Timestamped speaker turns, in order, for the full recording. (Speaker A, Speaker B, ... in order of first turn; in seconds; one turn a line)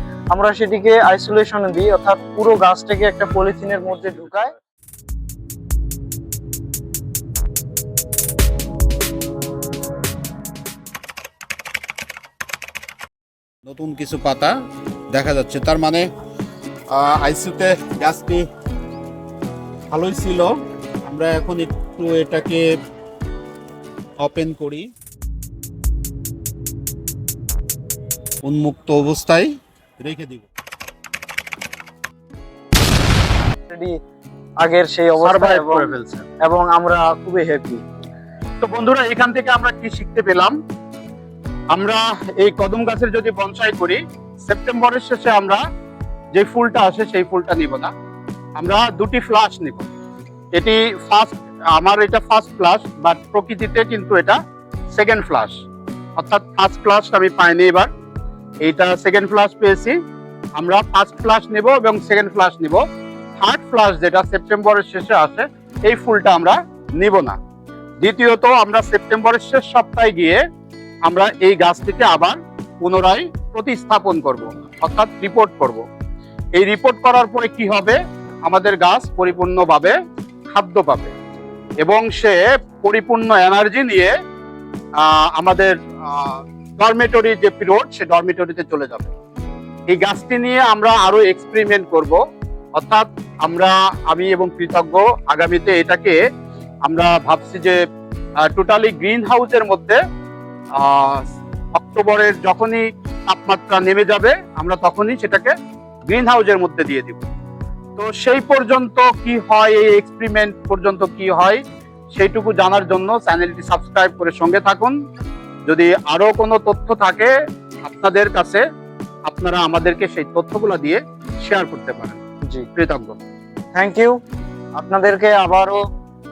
Speaker A: 0.3-4.5
Speaker B: 13.7-14.6
Speaker B: 15.1-16.1
Speaker B: 16.9-18.5
Speaker B: 19.9-20.5
Speaker B: 21.1-22.6
Speaker B: 24.2-24.9
Speaker B: 28.4-30.5
Speaker A: 33.7-33.9
Speaker A: 34.6-35.9
Speaker B: 35.2-36.3
Speaker A: 36.4-37.8
Speaker B: 38.6-40.6
Speaker B: 41.7-45.6
Speaker B: 46.3-47.9
Speaker B: 48.6-49.9
Speaker B: 50.5-54.4
Speaker B: 54.9-55.6
Speaker B: 56.2-57.9
Speaker B: 58.6-60.0
Speaker B: 60.6-62.8
Speaker B: 63.4-67.4
Speaker B: 68.0-70.4
Speaker B: 71.1-75.8
Speaker B: 76.6-80.0
Speaker B: 80.5-81.2
Speaker B: 81.8-84.1
Speaker B: 85.0-89.1
Speaker B: 89.9-92.2
Speaker B: 92.8-96.2
Speaker B: 96.9-97.8
Speaker B: 98.5-100.0
Speaker B: 100.8-101.2
Speaker B: 101.8-105.5
Speaker B: 106.1-107.2
Speaker B: 108.0-114.9
Speaker B: 115.7-117.3
Speaker B: 117.8-118.6
Speaker B: 119.3-122.2
Speaker B: 122.8-123.2
Speaker A: 123.8-124.2
Speaker A: 124.8-125.8